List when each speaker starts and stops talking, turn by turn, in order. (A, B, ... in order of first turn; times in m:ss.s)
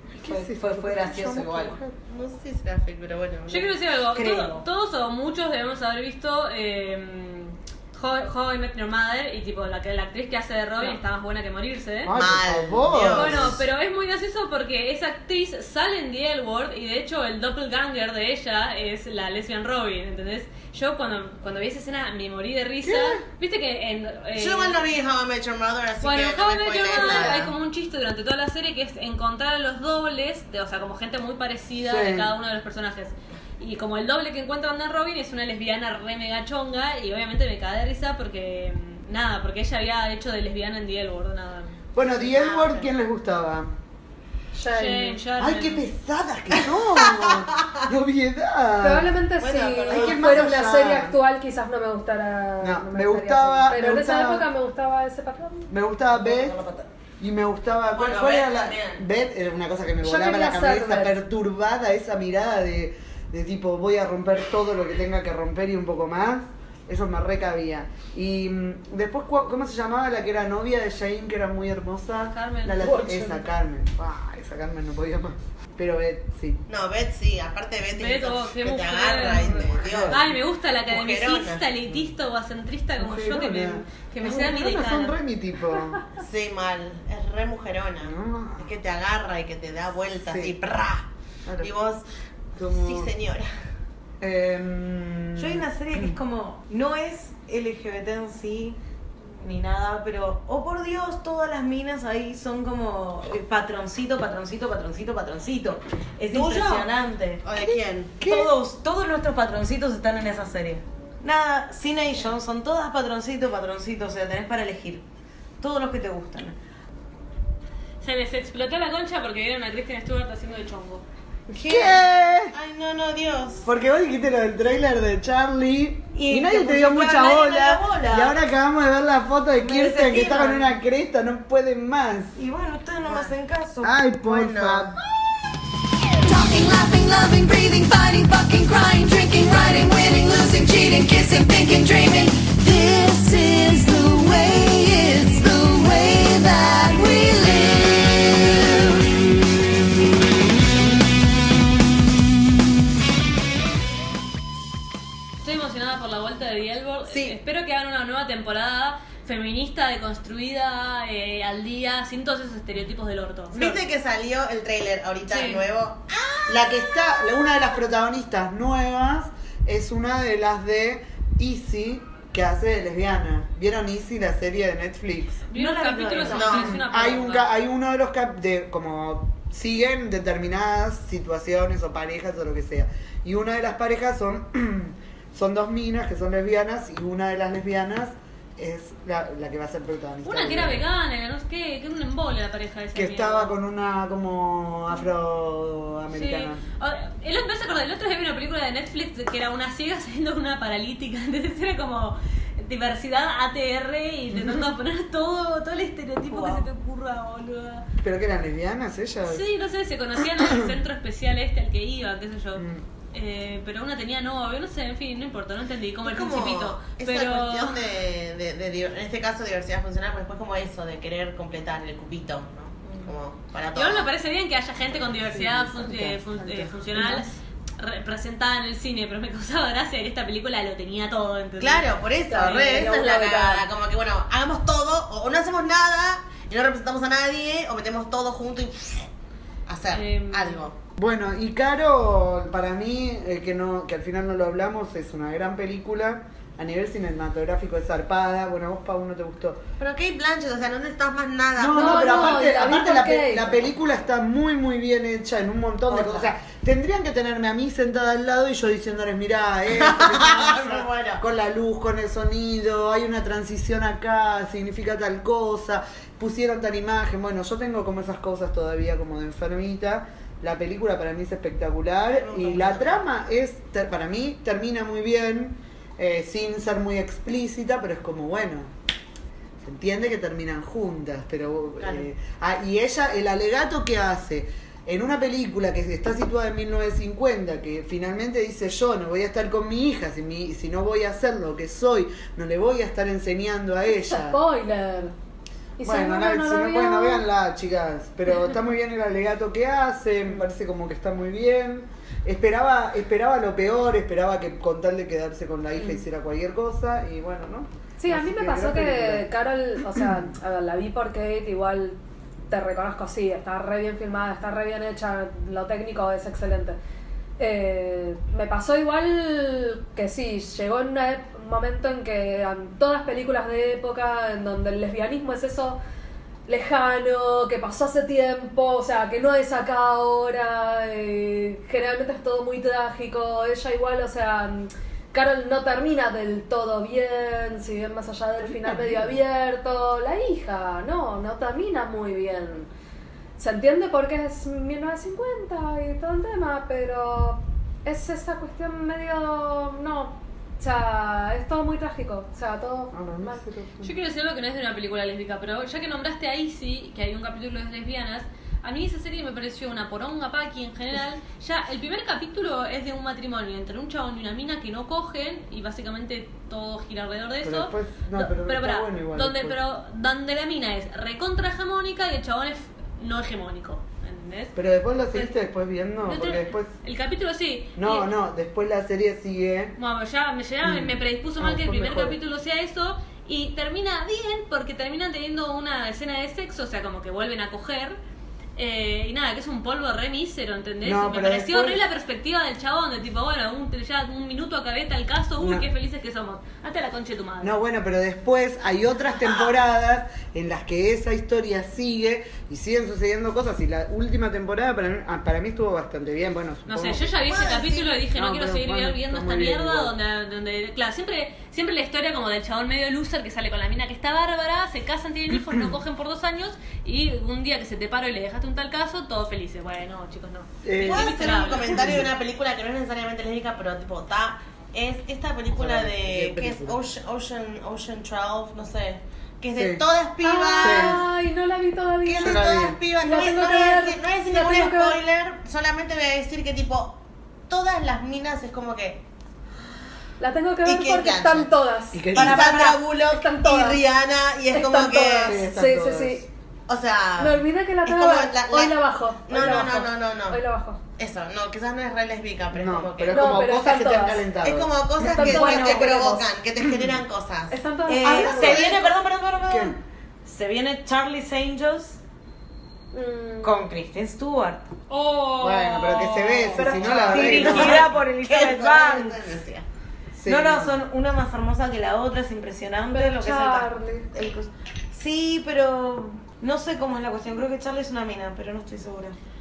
0:00.1-0:02.0 A
0:00.2-0:01.8 B
0:02.1-0:03.7 C
0:03.5-0:12.1 D
0:04.1-0:04.6 B
0:12.0-0:13.6 A
0:12.2-0:13.6 C
0:13.1-0:24.9 D
0:22.8-0:23.2 A
0:24.4-0:27.5 C
0:26.0-0:41.8 D
0:31.8-0:32.3 A
0:41.9-0:43.7 A
0:42.2-0:42.9 C
0:44.5-0:45.2 E
0:44.7-0:45.9 D
0:45.4-0:49.1 A
0:48.8-0:55.7 E
0:49.4-0:50.4 C
0:49.9-0:51.1 A
0:52.6-0:54.5 A
0:55.7-0:56.6 A
0:56.2-0:56.8 B
0:57.2-1:16.6 A
0:57.9-0:59.0 C
1:00.0-1:01.2 E
1:12.3-1:12.9 D
1:12.8-1:13.4 E
1:16.7-1:20.3 C
1:17.9-1:25.2 D
1:19.8-1:20.3 A
1:20.9-1:21.7 C
1:23.0-1:26.0 A
1:26.2-1:31.1 C
1:28.0-1:28.8 A
1:30.2-1:30.5 A
1:31.4-1:31.7 A
1:31.6-1:32.0 C
1:32.6-1:33.1 A
1:32.6-1:33.5 C
1:34.2-1:36.1 A
1:35.4-1:47.4 B
1:46.3-1:46.9 C
1:47.4-1:48.2 C
1:47.6-1:48.5 A
1:48.2-1:55.0 B
1:55.6-1:56.5 B
1:58.0-2:01.0 D
2:01.5-2:02.5 A
2:01.5-2:03.7 C
2:03.6-2:12.4 A
2:06.1-2:08.4 B
2:09.6-2:10.7 B
2:12.3-2:14.0 B
2:13.0-2:13.3 C
2:13.8-2:15.0 A
2:14.2-2:14.9 C
2:16.2-2:29.2 F
2:35.4-2:43.8 D
2:37.1-2:37.4 C
2:43.5-2:47.6 C
2:45.2-2:45.6 D
2:46.5-2:55.4 A
2:55.5-2:57.5 D
2:55.5-2:56.8 B
2:56.3-2:56.7 C
2:56.5-3:10.8 A
3:10.2-3:13.6 D
3:12.9-3:16.6 A
3:16.1-3:27.8 D
3:24.3-3:24.7 A
3:26.3-3:26.6 B
3:28.0-3:29.4 A
3:29.2-3:37.8 D
3:30.3-3:30.7 A
3:32.5-3:32.8 A
3:36.0-3:44.1 C
3:43.7-3:53.6 D
3:45.3-3:47.3 A
3:51.6-3:59.1 C
3:52.7-3:53.3 E
3:59.7-4:00.8 C
3:59.9-4:00.6 D
4:01.0-4:09.6 A
4:09.8-4:12.5 C
4:11.6-4:38.7 A
4:11.7-4:13.7 E
4:15.9-4:16.3 C
4:19.7-4:21.2 C
4:32.1-4:33.0 C
4:39.6-4:54.4 A
4:41.8-4:42.1 C
4:54.0-4:55.1 E
4:55.8-4:57.2 E
4:55.8-5:09.3 A
5:08.0-5:12.0 E
5:09.9-5:10.2 A
5:12.5-5:16.8 E
5:17.4-5:25.8 E
5:26.5-5:42.7 E
5:38.4-5:39.2 A
5:43.4-5:53.4 E
5:52.9-5:54.0 A
5:53.8-6:14.6 D
6:07.4-6:09.6 A
6:14.5-6:16.7 A
6:16.0-6:18.1 D
6:17.8-6:19.8 A
6:19.8-6:28.0 D
6:20.6-6:22.2 A
6:28.6-6:37.6 D
6:30.8-6:31.8 A
6:35.4-6:35.6 A
6:37.4-6:47.2 A
6:46.7-7:01.9 D
6:47.3-6:48.0 C
6:48.1-6:49.9 A
6:55.3-6:55.8 A
7:00.6-7:02.1 A
7:00.8-7:11.0 C
7:05.5-7:06.8 A
7:09.5-7:09.8 A
7:10.2-7:15.0 E
7:10.6-7:11.0 A
7:12.0-7:19.0 C
7:12.2-7:12.8 A
7:20.2-7:23.8 E
7:20.6-7:21.5 C
7:21.9-7:22.5 A
7:22.1-7:25.4 C
7:24.5-7:26.2 E
7:25.2-7:26.3 A
7:26.7-7:28.8 C
7:27.2-7:30.8 E
7:29.3-7:30.4 C
7:31.0-7:33.6 C
7:32.5-7:35.4 A
7:33.1-7:34.2 E
7:34.4-7:38.8 C
7:35.0-7:36.3 E
7:35.2-7:36.2 B
7:36.6-7:37.0 A
7:37.5-7:38.7 E
7:37.9-7:42.0 B
7:38.0-7:38.8 A
7:39.5-7:39.8 A
7:42.9-7:43.6 E
7:43.4-7:44.7 B
7:44.9-7:47.0 D
7:45.4-7:47.9 A
7:46.5-7:49.2 B
7:47.1-7:49.6 C
7:50.1-7:50.8 A
7:50.2-7:59.2 B
7:52.9-7:54.1 E